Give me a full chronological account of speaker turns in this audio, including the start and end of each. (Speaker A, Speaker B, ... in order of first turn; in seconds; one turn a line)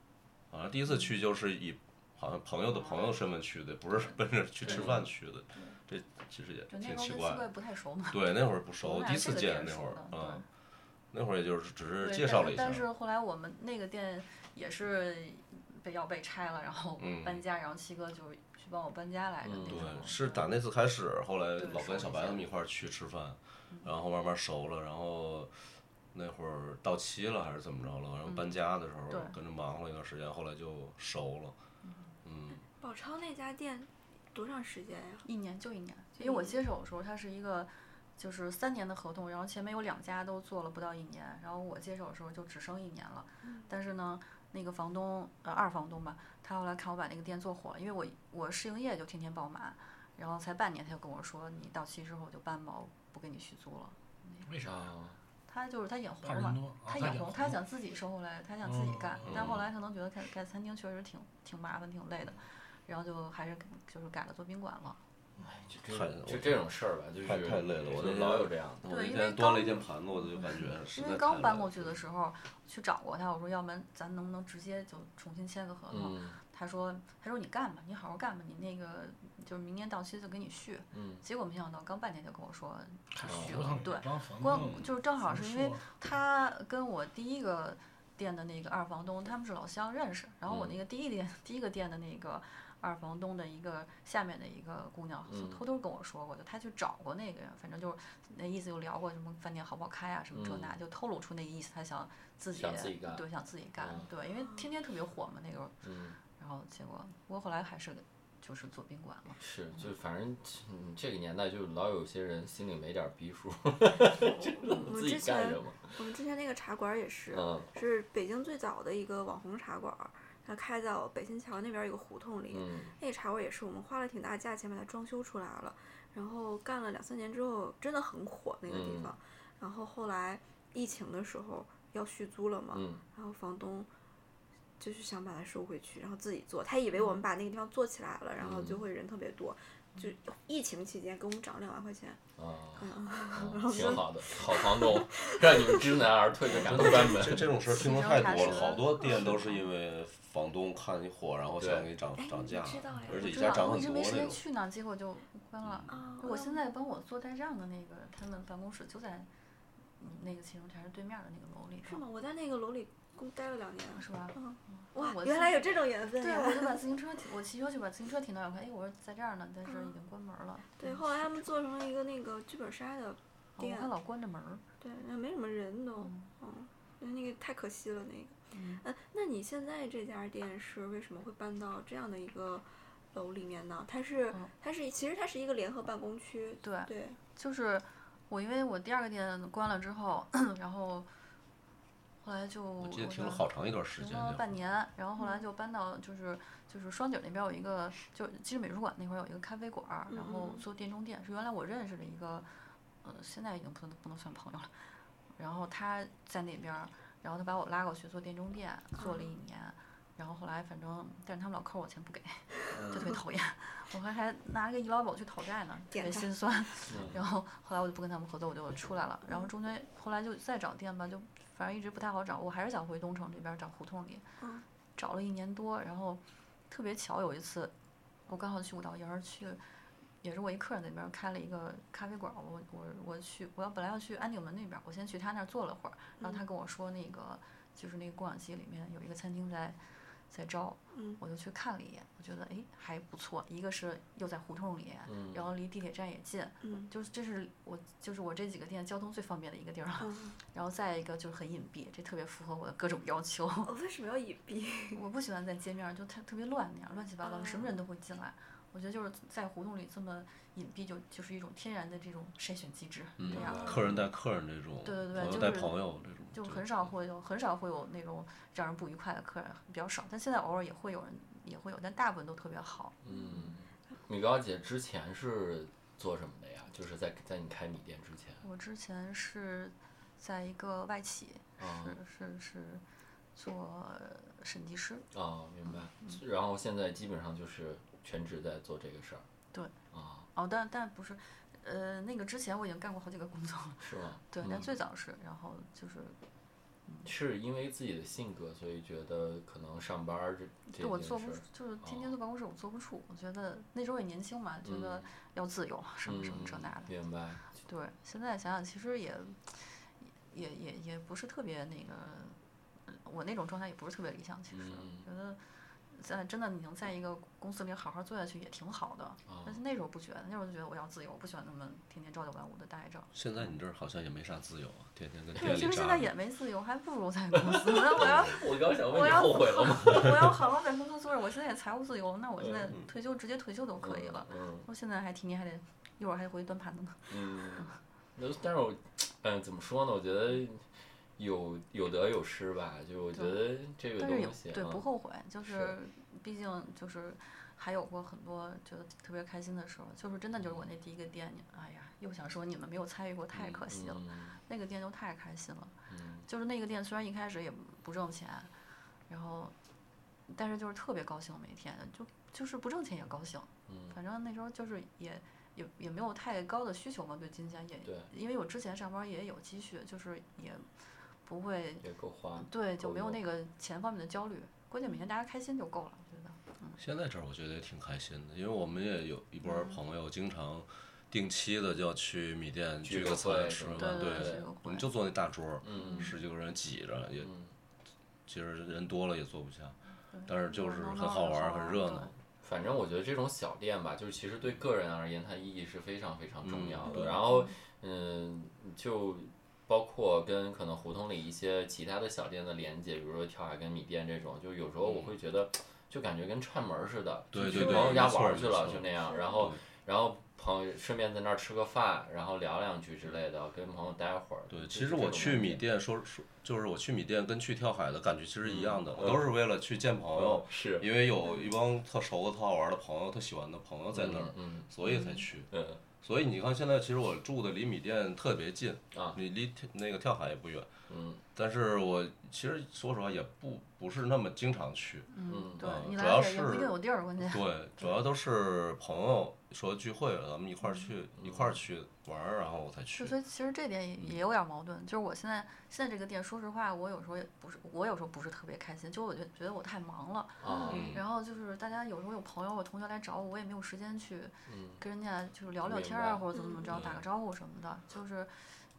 Speaker A: 0.5-7.5
Speaker B: 2.7-3.2
Speaker B: 4.0-4.9
Speaker C: 4.6-5.0
Speaker B: 5.5-5.8
Speaker B: 6.7-10.4
Speaker A: 8.1-10.4
Speaker A: 11.1-12.8
Speaker B: 12.0-20.5
Speaker A: 17.0-17.4
Speaker C: 19.4-20.0
Speaker A: 19.7-25.6
Speaker B: 21.6-22.4
Speaker A: 26.1-31.6
Speaker B: 28.2-29.4
Speaker B: 31.8-32.1
Speaker A: 32.2-32.6
Speaker D: 32.8-35.2
Speaker B: 35.2-54.5
Speaker D: 36.2-36.6
Speaker D: 43.4-43.7
Speaker E: 54.4-54.9
Speaker C: 54.6-55.2
Speaker B: 55.5-65.0
Speaker E: 56.2-57.6
Speaker E: 58.6-59.4
Speaker A: 59.2-59.6
Speaker E: 65.4-65.7
Speaker C: 65.4-68.8
Speaker A: 65.9-66.6
Speaker A: 67.2-72.0
Speaker B: 68.8-105.8
Speaker C: 75.9-76.4
Speaker C: 80.9-81.2
Speaker E: 83.1-85.9
Speaker C: 83.2-83.7
Speaker C: 90.5-90.7
Speaker C: 95.3-95.6
Speaker C: 100.3-100.7
Speaker C: 102.5-103.2
Speaker C: 103.8-104.1
Speaker C: 105.8-106.2
Speaker B: 106.4-109.9
Speaker C: 109.4-116.0
Speaker D: 114.4-133.9
Speaker C: 117.3-117.7
Speaker C: 122.5-122.9
Speaker C: 128.7-129.1
Speaker C: 132.7-133.0
Speaker D: 134.8-142.2
Speaker C: 138.4-138.8
Speaker C: 142.4-147.5
Speaker D: 142.8-146.1
Speaker A: 146.5-154.4
Speaker B: 147.7-149.6
Speaker D: 149.0-149.3
Speaker C: 151.6-151.9
Speaker D: 152.2-153.8
Speaker B: 153.1-159.3
Speaker A: 155.6-155.9
Speaker D: 155.9-156.6
Speaker B: 160.0-162.0
Speaker D: 161.8-166.9
Speaker B: 163.9-171.0
Speaker D: 169.7-169.9
Speaker D: 170.8-173.9
Speaker B: 173.6-174.6
Speaker D: 174.8-187.2
Speaker B: 176.0-176.3
Speaker B: 178.5-178.8
Speaker B: 186.6-191.1
Speaker B: 192.2-202.5
Speaker A: 192.8-194.5
Speaker D: 195.2-195.4
Speaker D: 200.1-200.6
Speaker B: 203.0-204.7
Speaker B: 205.4-224.2
Speaker D: 209.0-209.3
Speaker D: 215.9-216.3
Speaker C: 216.9-217.2
Speaker D: 224.4-224.6
Speaker B: 224.9-227.7
Speaker B: 228.3-229.6
Speaker B: 230.2-239.8
Speaker B: 240.3-253.7
Speaker D: 240.9-241.2
Speaker C: 245.1-245.4
Speaker D: 246.6-246.9
Speaker D: 250.0-250.4
Speaker D: 253.6-255.0
Speaker B: 254.9-263.7
Speaker D: 257.2-257.7
Speaker C: 263.2-264.1
Speaker A: 263.2-266.7
Speaker D: 263.3-263.9
Speaker B: 264.8-272.9
Speaker C: 273.0-278.4
Speaker D: 273.1-273.5
Speaker B: 278.4-282.8
Speaker C: 281.6-282.0
Speaker B: 283.3-285.0
Speaker C: 285.1-289.2
Speaker B: 285.7-286.2
Speaker C: 289.9-290.3
Speaker B: 290.3-296.2
Speaker C: 293.8-294.7
Speaker C: 297.0-302.1
Speaker B: 300.7-306.9
Speaker C: 304.6-305.1
Speaker C: 306.0-307.4
Speaker B: 307.6-315.4
Speaker C: 314.5-315.1
Speaker B: 315.9-323.1
Speaker C: 319.3-319.6
Speaker A: 323.1-326.1
Speaker B: 325.4-337.8
Speaker C: 327.5-330.3
Speaker C: 332.4-332.8
Speaker C: 333.8-334.7
Speaker C: 337.1-340.6
Speaker C: 341.2-344.8
Speaker B: 343.1-343.4
Speaker B: 344.0-355.7
Speaker C: 345.4-345.7
Speaker C: 350.4-350.7
Speaker C: 353.3-354.4
Speaker C: 355.9-356.3
Speaker B: 356.3-358.5
Speaker B: 359.1-359.5
Speaker B: 360.3-370.7
Speaker C: 363.7-364.0
Speaker C: 367.8-368.1
Speaker B: 371.2-371.9
Speaker C: 371.8-373.2
Speaker B: 372.4-376.8
Speaker A: 376.8-387.3
Speaker B: 379.4-379.8
Speaker C: 382.8-384.4
Speaker B: 383.8-384.9
Speaker C: 385.6-386.1
Speaker B: 385.7-386.1
Speaker C: 387.2-387.5
Speaker A: 388.2-392.1
Speaker B: 390.1-392.1
Speaker C: 392.4-415.6
Speaker A: 396.4-397.2
Speaker B: 396.9-397.5
Speaker A: 404.8-405.1
Speaker A: 407.3-408.9
Speaker D: 407.4-408.2
Speaker D: 409.0-409.4
Speaker A: 414.5-425.5
Speaker C: 418.4-419.3
Speaker C: 420.1-420.9
Speaker C: 423.9-424.7
Speaker B: 424.9-425.3
Speaker C: 425.5-425.8
Speaker A: 426.0-430.7
Speaker C: 428.9-429.2
Speaker C: 430.9-431.2
Speaker A: 431.3-435.1
Speaker B: 435.1-438.0
Speaker C: 435.3-435.7
Speaker A: 435.6-443.1
Speaker C: 441.2-441.6
Speaker B: 442.9-458.3
Speaker C: 450.4-451.0
Speaker D: 450.4-450.9
Speaker A: 450.7-451.0
Speaker C: 454.5-454.8
Speaker C: 455.6-457.0
Speaker D: 456.3-456.7